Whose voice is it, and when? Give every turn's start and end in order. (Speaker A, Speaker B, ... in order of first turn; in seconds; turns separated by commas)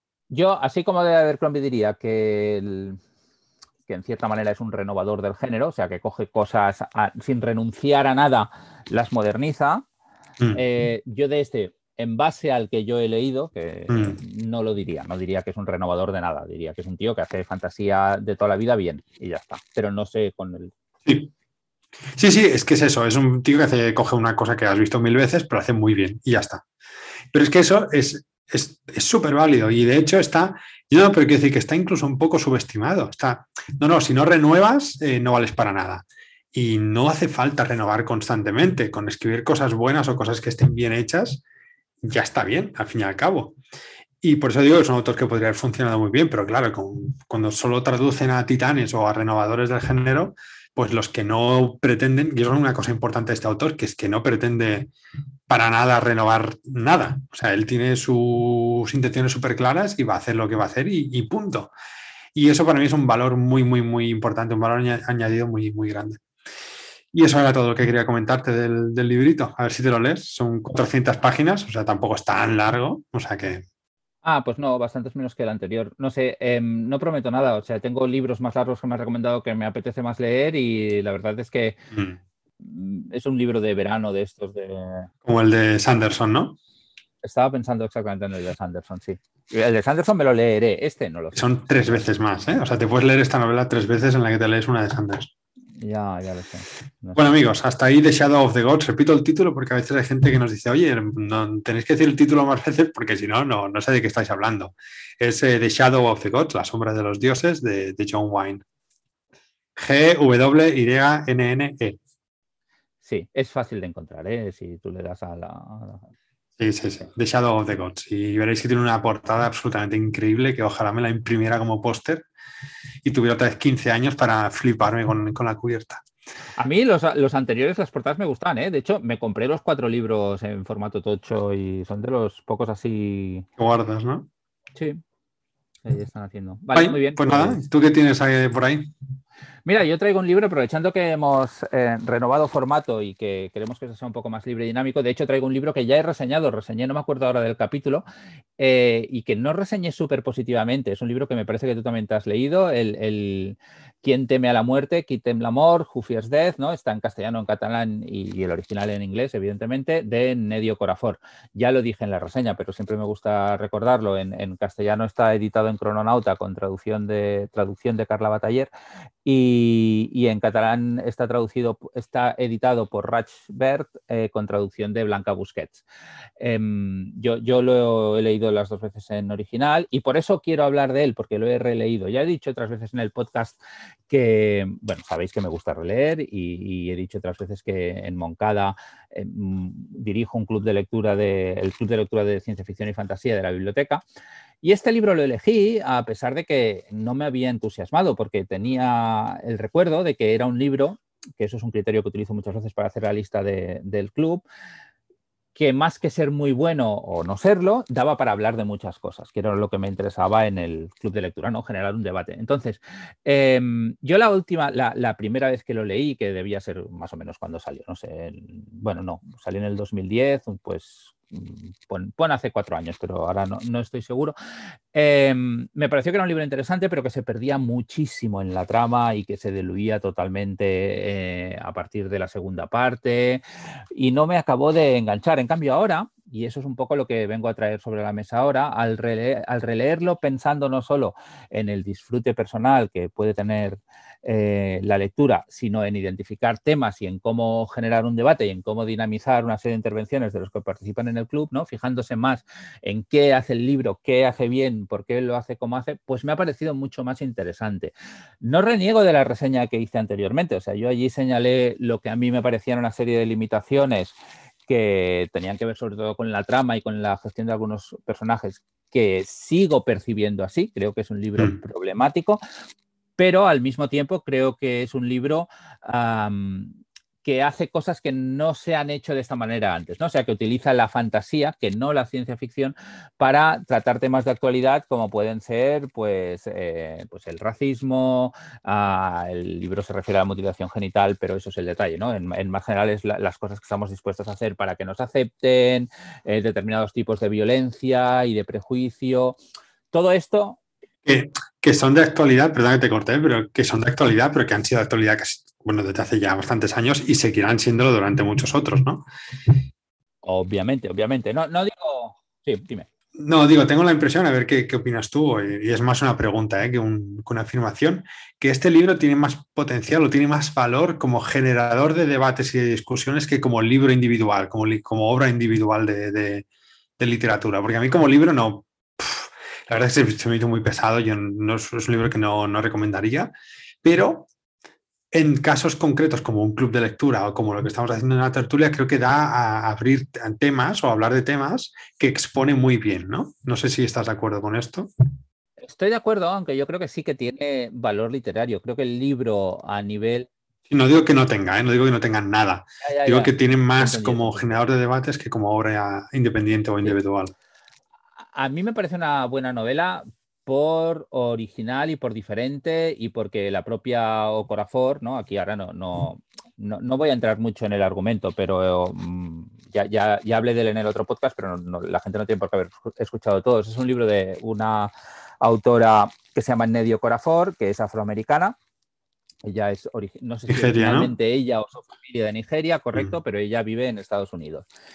Speaker A: 0.3-3.0, Speaker A: 3.9-9.9, Speaker A: 10.5-20.7, Speaker B: 13.9-14.2, Speaker B: 21.1-21.3, Speaker B: 22.2-26.6, Speaker B: 27.3-41.4, Speaker B: 42.0-43.6, Speaker B: 44.2-54.9, Speaker B: 55.5-61.7, Speaker B: 62.4-66.2, Speaker B: 67.1-73.6, Speaker A: 74.2-81.8, Speaker A: 82.6-85.1, Speaker B: 85.2-86.6, Speaker A: 87.2-91.7, Speaker B: 91.3-95.3, Speaker A: 95.8-97.3, Speaker B: 97.2-108.6, Speaker B: 109.8-112.0, Speaker A: 113.0-116.1, Speaker B: 116.6-122.3, Speaker B: 123.0-126.0, Speaker A: 126.6-133.5, Speaker B: 133.6-134.3, Speaker A: 134.8-135.0, Speaker A: 135.8-137.6, Speaker B: 136.8-138.9, Speaker A: 139.7-148.0, Speaker A: 148.6-168.7, Speaker A: 169.2-175.8, Speaker A: 176.4-183.6, Speaker A: 184.1-194.0, Speaker A: 194.6-204.4, Speaker A: 205.6-224.3, Speaker A: 224.9-233.4, Speaker A: 233.9-264.1, Speaker A: 264.7-272.4, Speaker A: 273.2-299.4, Speaker A: 299.9-300.6, Speaker B: 301.1-309.1, Speaker A: 310.2-312.9, Speaker B: 313.2-326.5, Speaker B: 327.0-334.3, Speaker B: 335.1-344.9, Speaker A: 345.6-350.3, Speaker B: 350.7-357.3, Speaker A: 352.8-354.6, Speaker A: 358.3-378.6, Speaker A: 379.4-384.7, Speaker B: 380.5-381.1